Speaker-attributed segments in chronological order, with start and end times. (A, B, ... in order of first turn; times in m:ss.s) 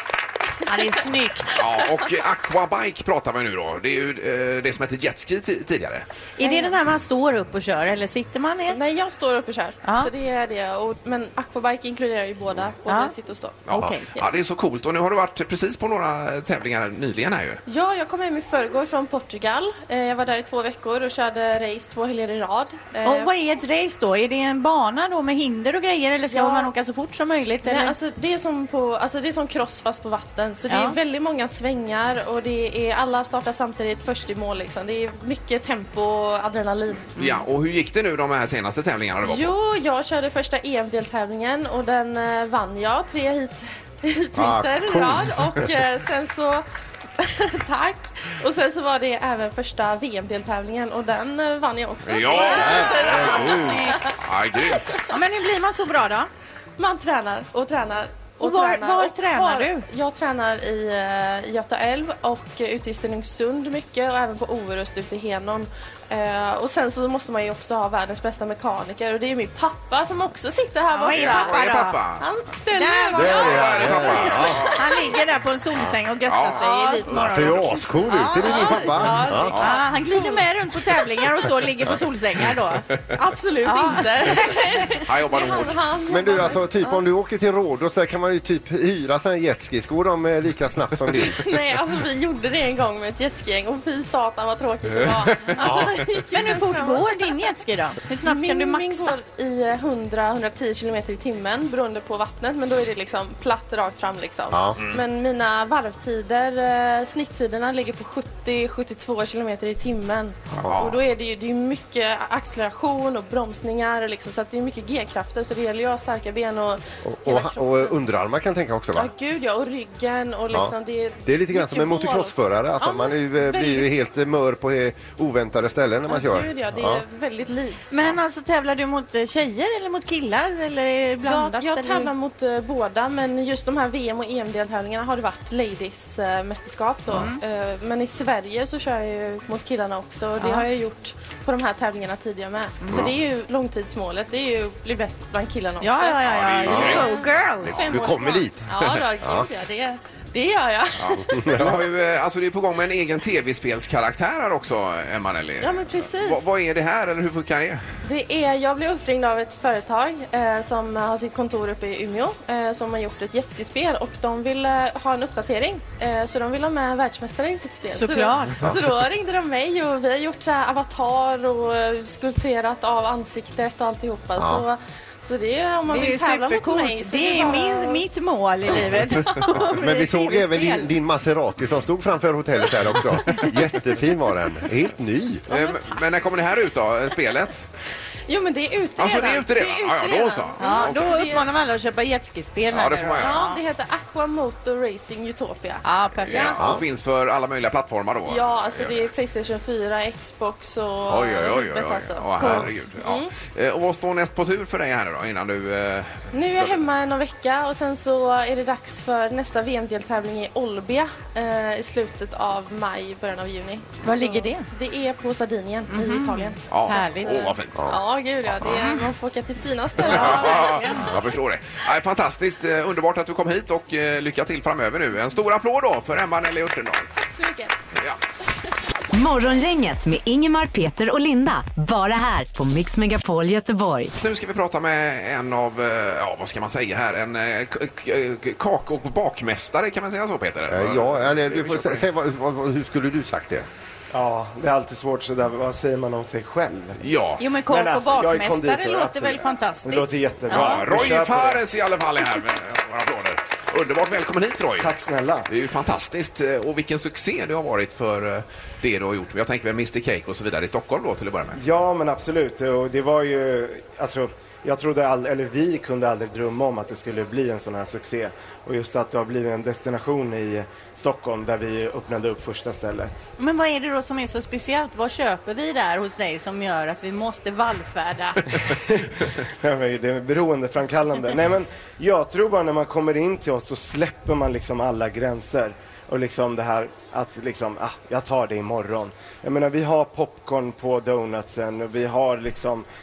0:00.7-0:01.7 A
0:01.5-0:06.0 B
0:06.4-0:08.8 A
0:06.4-0:06.8 C
0:08.7-0:14.4 C
0:09.8-0:10.1 A
0:12.9-0:13.1 A
0:13.7-0:17.6 B
0:13.7-0:14.1 A
0:17.7-0:23.3 C
0:23.0-0:28.0 A
0:26.3-0:26.7 C
0:27.6-0:37.1 C
0:30.7-0:31.0 A
0:37.2-0:39.6 B
0:39.2-0:46.6 C
0:44.4-0:45.7 D
0:47.2-0:54.1 C
0:52.0-0:55.0 B
0:52.4-0:54.2 A
0:52.8-0:53.8 D
0:55.1-0:56.3 A
0:56.8-1:11.6 C
0:58.4-0:59.9 A
1:10.9-1:12.0 A
1:11.1-1:12.2 B
1:12.2-1:14.7 C
1:12.8-1:13.7 A
1:13.2-1:14.7 D
1:13.2-1:15.0 B
1:14.8-1:22.8 A
1:16.3-1:17.7 B
1:16.6-1:17.1 C
1:17.1-1:19.6 D
1:18.3-1:20.5 C
1:19.5-1:19.8 B
1:23.1-1:27.0 C
1:23.6-1:24.6 A
1:25.1-1:25.8 B
1:26.1-1:31.5 D
1:31.1-1:37.3 C
1:35.6-1:36.0 D
1:36.3-1:39.2 A
1:38.2-1:58.0 C
1:44.5-1:44.8 D
1:50.5-1:50.8 D
1:50.6-1:51.0 B
1:57.0-1:59.1 D
1:59.0-2:03.9 C
2:01.3-2:07.0 D
2:06.1-2:08.2 C
2:07.9-2:12.1 A
2:11.2-2:26.2 C
2:17.1-2:17.4 A
2:20.4-2:20.7 A
2:25.8-2:27.8 A
2:26.3-2:27.2 B
2:26.7-2:27.1 D
2:26.7-2:31.5 C
2:27.6-2:29.5 D
2:31.0-2:37.9 B
2:31.2-2:31.8 D
2:35.6-2:36.5 C
2:38.0-2:58.0 C
2:47.9-2:48.6 A
2:54.4-2:54.6 D
2:55.9-3:00.9 A
2:59.1-2:59.4 C
2:59.7-3:05.4 D
3:05.5-3:05.9 C
3:05.5-3:07.6 B
3:08.3-3:11.4 C
3:09.0-3:11.1 B
3:10.6-3:13.6 A
3:12.7-3:13.4 B
3:13.2-3:16.5 C
3:15.8-3:16.6 A
3:16.2-3:19.1 B
3:16.4-3:16.8 D
3:18.3-3:23.3 C
3:21.1-3:26.8 B
3:26.3-3:41.0 C
3:34.0-3:34.7 A
3:36.0-3:37.5 A
3:36.7-3:37.9 B
3:38.6-3:39.1 A
3:40.0-3:47.1 B
3:40.0-3:41.1 A
3:47.2-3:47.7 C
3:49.1-3:54.1 E
3:54.2-4:02.0 B
4:00.7-4:03.7 D
4:04.1-4:07.0 F
4:07.0-4:07.4 B
4:07.4-4:10.8 A
4:07.7-4:11.6 F
4:10.5-4:14.9 B
4:14.8-4:15.5 F
4:15.5-4:21.6 B
4:21.6-4:33.3 F
4:33.4-4:38.4 A
4:38.6-4:52.9 F